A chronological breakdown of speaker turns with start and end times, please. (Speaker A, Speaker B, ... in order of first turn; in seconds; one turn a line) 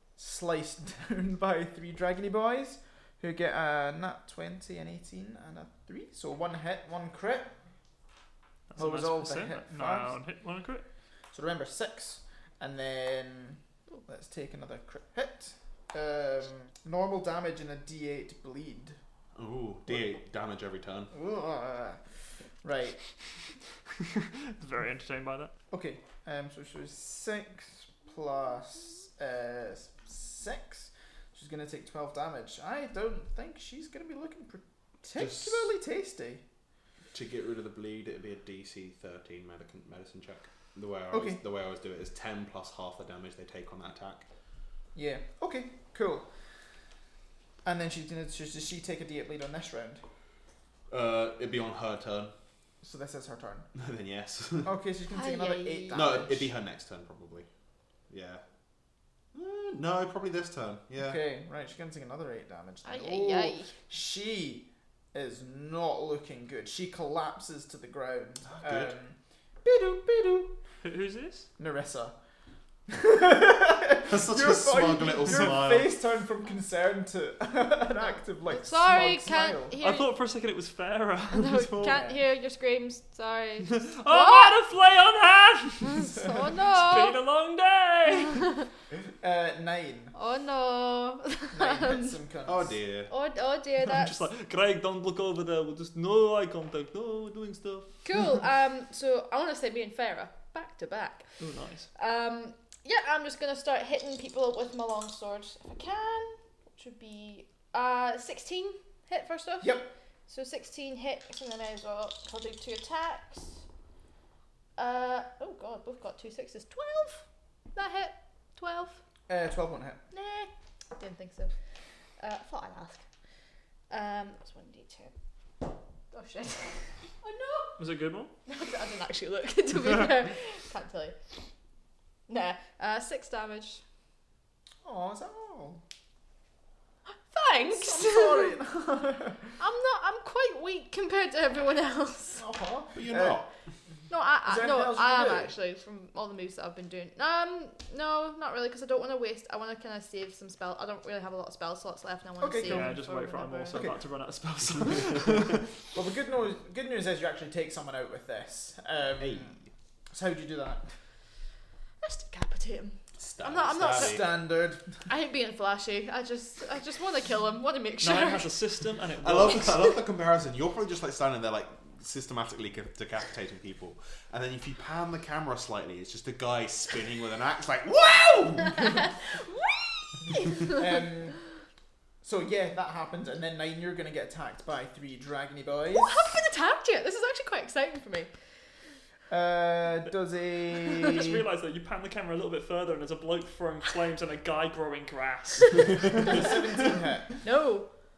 Speaker A: 0.2-7.5
Speaker B: 8.7-10.8
Speaker A: 8.8-10.2
Speaker A: 11.3-19.0
Speaker C: 19.4-21.1
Speaker A: 21.1-22.0
Speaker A: 22.6-23.0
Speaker B: 24.0-25.5
Speaker A: 25.7-36.4
Speaker C: 35.2-35.7
Speaker C: 37.1-44.3
Speaker A: 41.1-41.4
Speaker A: 45.0-46.3
Speaker A: 47.6-50.0
Speaker C: 50.9-52.3
Speaker A: 52.8-53.7
Speaker C: 53.8-54.7
Speaker A: 54.6-56.5
Speaker D: 55.1-56.2
Speaker C: 55.9-57.5
Speaker C: 58.1-58.4
Speaker C: 59.3-61.2
Speaker A: 61.0-70.6
Speaker D: 62.9-63.7
Speaker C: 68.5-68.9
Speaker B: 70.8-71.5
Speaker A: 71.6-72.2
Speaker A: 72.9-79.8
Speaker C: 74.1-76.0
Speaker D: 78.5-80.1
Speaker B: 79.8-82.0
Speaker D: 81.3-84.6
Speaker A: 81.8-82.2
Speaker B: 83.6-86.2
Speaker D: 85.8-87.2
Speaker A: 86.1-86.5
Speaker B: 86.7-88.5
Speaker A: 89.2-90.1
Speaker D: 90.2-92.2
Speaker A: 91.5-92.8
Speaker C: 92.5-93.1
Speaker D: 93.1-94.2
Speaker B: 93.8-98.0
Speaker D: 98.0-101.3
Speaker B: 101.4-101.9
Speaker D: 102.0-113.6
Speaker A: 109.6-109.9
Speaker D: 114.8-119.0
Speaker A: 119.3-120.0
Speaker D: 120.1-121.5
Speaker D: 122.2-123.0
Speaker D: 123.9-125.1
Speaker D: 126.1-127.8
Speaker B: 127.8-128.3
Speaker D: 128.5-131.2
Speaker D: 132.3-133.8
Speaker A: 134.8-135.8
Speaker D: 137.3-138.6
Speaker A: 137.7-139.6
Speaker D: 139.6-142.4
Speaker A: 142.4-143.4
Speaker C: 142.9-143.5
Speaker D: 144.1-153.8
Speaker A: 144.4-145.5
Speaker A: 152.4-153.0
Speaker B: 152.6-155.7
Speaker A: 153.7-154.0
Speaker A: 155.9-159.6
Speaker C: 159.2-159.7
Speaker A: 160.1-160.9
Speaker D: 162.0-164.2
Speaker C: 163.2-164.2
Speaker A: 163.9-164.9
Speaker D: 165.1-168.6
Speaker B: 168.0-169.9
Speaker C: 169.2-179.2
Speaker D: 178.7-180.8
Speaker A: 180.6-181.4
Speaker A: 182.2-186.4
Speaker D: 185.9-188.3
Speaker A: 189.3-191.4
Speaker B: 190.8-196.9
Speaker A: 196.2-197.4
Speaker D: 197.4-197.9